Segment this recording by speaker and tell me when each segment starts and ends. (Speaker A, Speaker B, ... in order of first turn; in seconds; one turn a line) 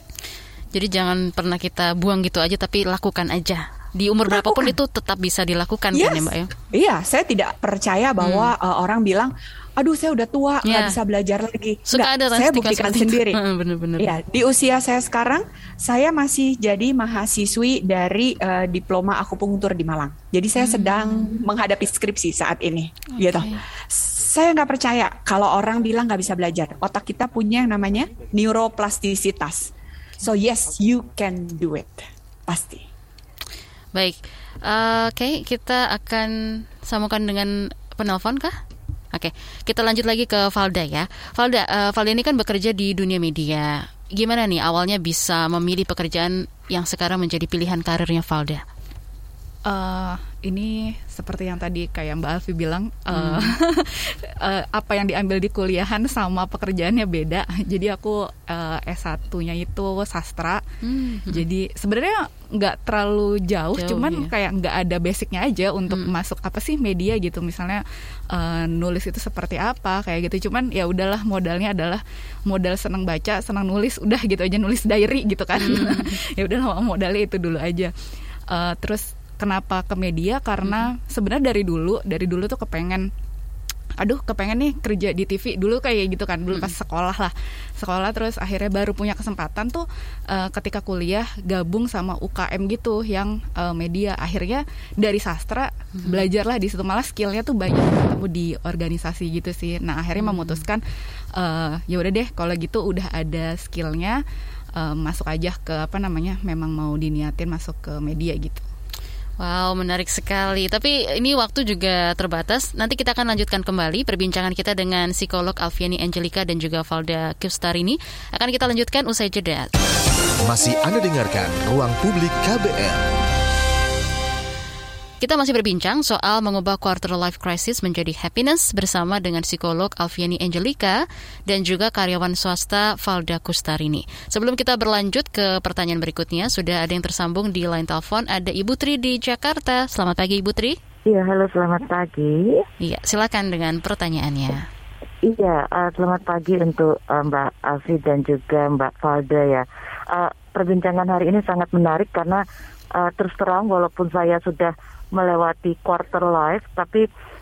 Speaker A: 0.7-6.5
Speaker B: 4.3-4.8
Speaker B: 5.9-13.4
Speaker A: 8.2-8.5
Speaker A: 10.7-10.9
Speaker A: 11.9-14.1
Speaker B: 14.0-29.7
Speaker A: 20.6-21.3
Speaker A: 23.1-23.6
Speaker B: 30.2-32.9
Speaker A: 33.9-38.5
Speaker A: 39.1-48.6
Speaker C: 49.6-60.6
Speaker A: 53.1-53.5
Speaker A: 60.8-61.4
Speaker C: 61.3-77.9
Speaker A: 63.8-64.3
Speaker A: 75.6-76.2
Speaker C: 78.5-83.1
Speaker A: 80.6-80.9
Speaker C: 84.0-100.8
Speaker A: 100.2-100.7
Speaker C: 101.3-104.2
Speaker C: 104.8-108.7
Speaker A: 109.4-119.7
Speaker D: 120.4-123.0
Speaker A: 125.2-140.8
Speaker E: 141.0-142.7
Speaker A: 142.8-144.7
Speaker E: 145.2-152.4
Speaker E: 153.0-157.1